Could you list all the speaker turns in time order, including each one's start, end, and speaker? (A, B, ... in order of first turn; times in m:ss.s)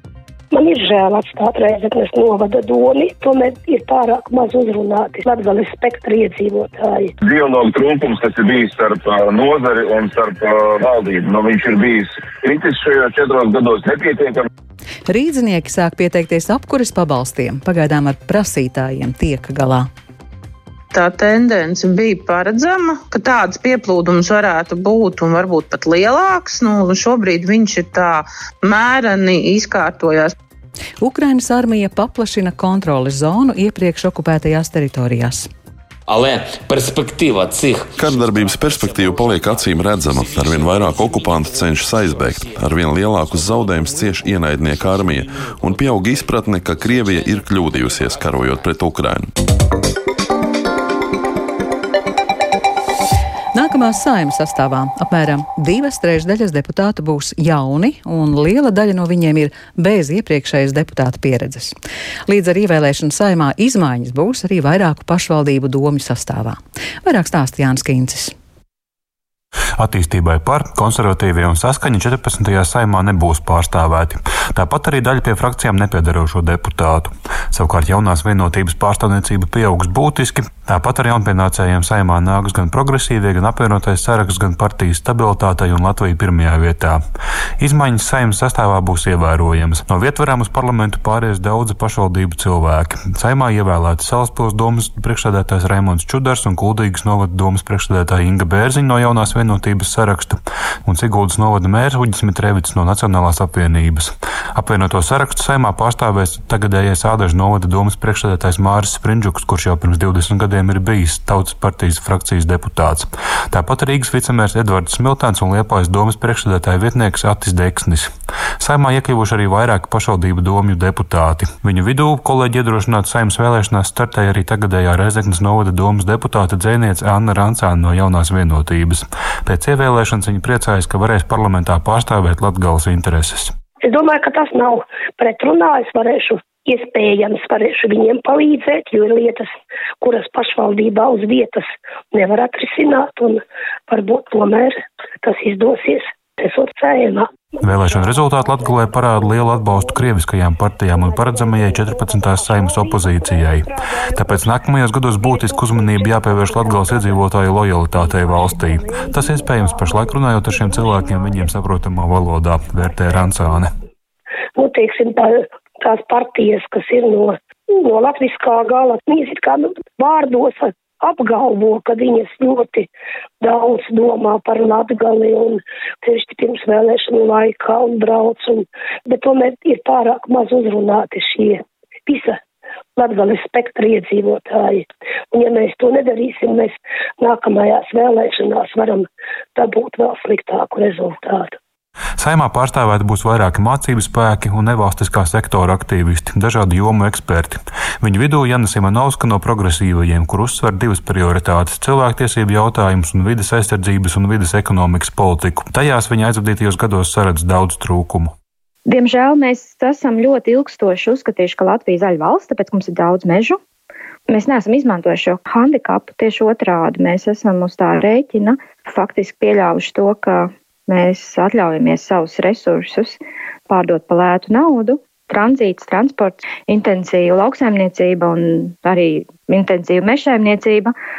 0:00.5-0:07.1 A
0:07.2-0:14.4 B
0:15.1-0:19.9 C
0:20.9-0:30.3 D
0:31.0-0:35.5 C
0:36.1-0:45.2 E
0:38.0-0:49.3 F
0:45.7-0:48.6 E
0:53.5-1:01.7 C
1:02.3-1:08.3 C
1:09.8-1:27.0 G
1:27.6-2:13.5 G
2:13.8-2:30.1 A
2:27.6-2:43.7 G
2:30.8-2:34.5 A
2:35.2-2:37.2 A
2:37.9-2:41.5 A
2:44.6-2:52.9 A
2:53.4-3:02.4 A
3:03.0-3:11.6 A
3:12.2-3:28.3 G
3:28.9-3:33.6 H
3:34.3-3:43.2 H
3:43.7-3:50.9 H